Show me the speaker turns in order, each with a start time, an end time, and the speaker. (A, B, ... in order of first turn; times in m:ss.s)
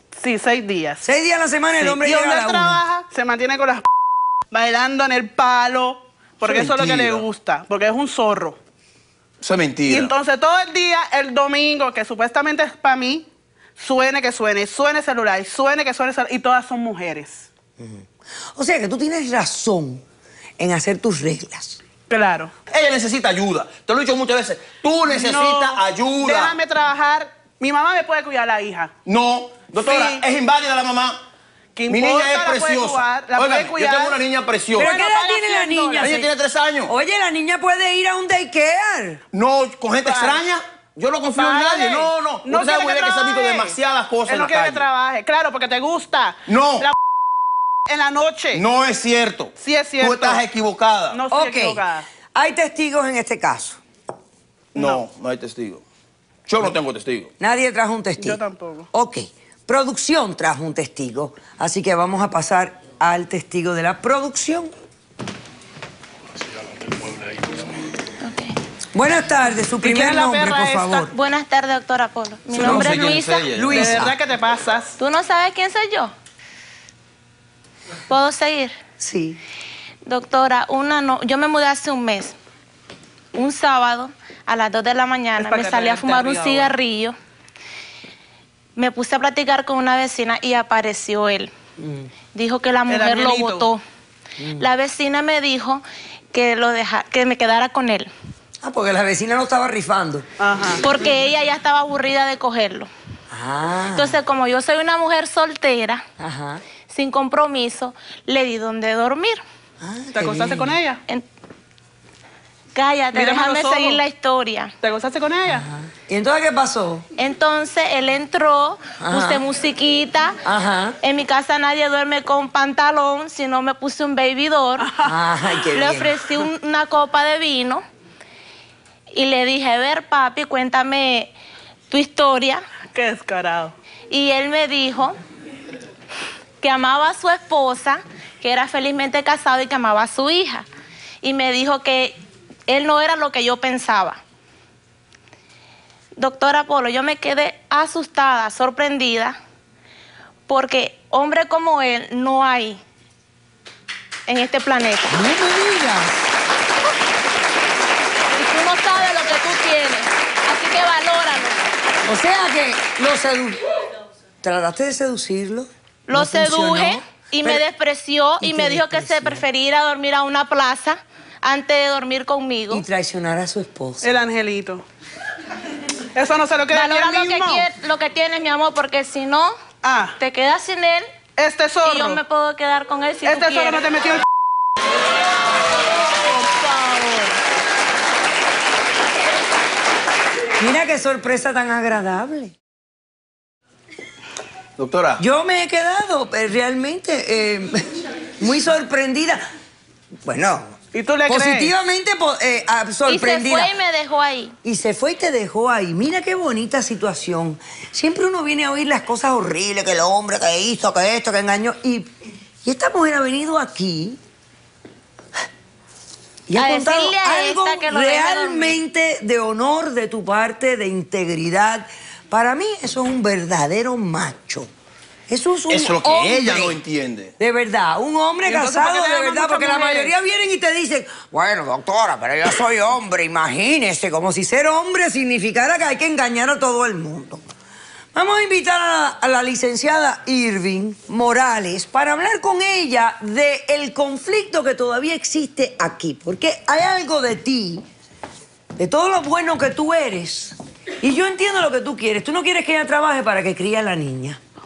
0:00.2-0:01.0 A
0:01.0-0:02.8 B
0:01.8-0:03.8 A
0:04.5-0:08.6 A
0:06.4-0:07.2 C
0:09.4-0:10.1 C
0:09.9-0:17.5 A
0:17.8-0:20.0 B
0:20.6-0:21.8 B
0:22.1-0:22.5 A
0:22.7-0:26.6 C
0:25.1-0:28.9 A
0:29.0-0:31.2 C
0:29.8-0:30.2 A
0:31.8-0:34.2 A
0:31.9-0:35.0 C
0:34.8-0:36.3 B
0:34.8-0:36.1 A
0:36.0-0:36.9 C
0:36.8-0:39.2 B
0:39.3-0:44.8 C
0:40.0-0:40.4 A
0:41.3-0:46.9 A
0:46.5-0:46.9 C
0:47.9-0:48.6 A
0:48.5-0:51.2 C
0:49.6-0:50.4 A
0:51.1-0:52.1 A
0:51.3-0:51.8 B
0:52.3-0:53.8 B
0:54.7-0:55.8 C
0:54.8-0:55.0 A
0:56.4-0:57.3 C
0:57.4-1:04.7 B
0:58.2-0:58.9 A
1:06.9-1:07.6 C
1:08.2-1:08.6 D
1:08.9-1:11.1 B
1:09.8-1:11.1 A
1:11.1-1:13.5 D
1:12.5-1:14.1 C
1:12.6-1:14.2 B
1:13.7-1:15.0 A
1:15.0-1:16.1 D
1:18.1-1:18.7 D
1:19.0-1:19.4 B
1:20.0-1:22.4 D
1:23.3-1:27.1 D
1:25.4-1:26.8 A
1:28.8-1:31.5 D
1:31.8-1:32.1 B
1:32.3-1:33.8 D
1:32.9-1:33.7 A
1:34.4-1:34.7 B
1:34.6-1:38.1 D
1:38.6-1:40.2 B
1:40.4-1:40.8 A
1:40.8-1:42.9 D
1:43.3-1:44.2 B
1:43.9-1:46.0 D
1:46.2-1:46.6 B
1:46.9-1:49.4 D
1:49.8-1:50.8 B
1:50.1-1:51.0 A
1:52.7-1:54.7 D
1:53.1-1:54.0 A
1:54.8-1:55.6 A
1:55.5-1:57.0 B
1:57.2-2:00.4 D
1:59.0-1:59.4 B
2:00.4-2:01.0 B
2:01.0-2:04.9 D
2:04.8-2:05.1 A
2:05.0-2:06.2 B
2:05.7-2:07.8 D
2:09.1-2:11.3 D
2:11.9-2:12.6 D
2:12.9-2:13.7 A
2:14.1-2:15.2 D
2:16.6-2:20.7 D
2:21.2-2:24.2 D
2:26.2-2:29.4 D
2:30.5-2:32.8 D
2:34.3-2:35.1 D
2:35.1-2:36.1 B
2:38.3-2:41.6 D
2:42.0-2:43.6 B
2:44.4-2:47.6 B
2:46.1-2:52.8 D
2:48.4-2:49.4 B
2:52.7-2:54.1 B
2:54.0-2:54.8 A
2:56.1-2:57.6 A
2:56.7-2:59.5 D
2:59.8-3:00.2 A
3:00.2-3:01.1 D
3:01.4-3:02.2 A
3:01.8-3:03.9 D
3:03.2-3:04.2 A
3:06.3-3:07.3 A
3:10.6-3:12.5 B
3:14.8-3:15.2 C
3:15.2-3:19.4 B
3:20.2-3:23.7 B
3:20.9-3:21.7 A
3:23.1-3:24.5 D
3:24.6-3:32.1 B
3:32.6-3:34.2 B
3:36.5-3:44.7 B
3:36.6-3:38.8 D
3:45.3-3:46.8 B
3:45.7-3:47.3 C
3:47.4-3:57.4 B
3:48.4-3:50.1 A
3:58.1-4:07.8 B
4:08.8-4:14.4 B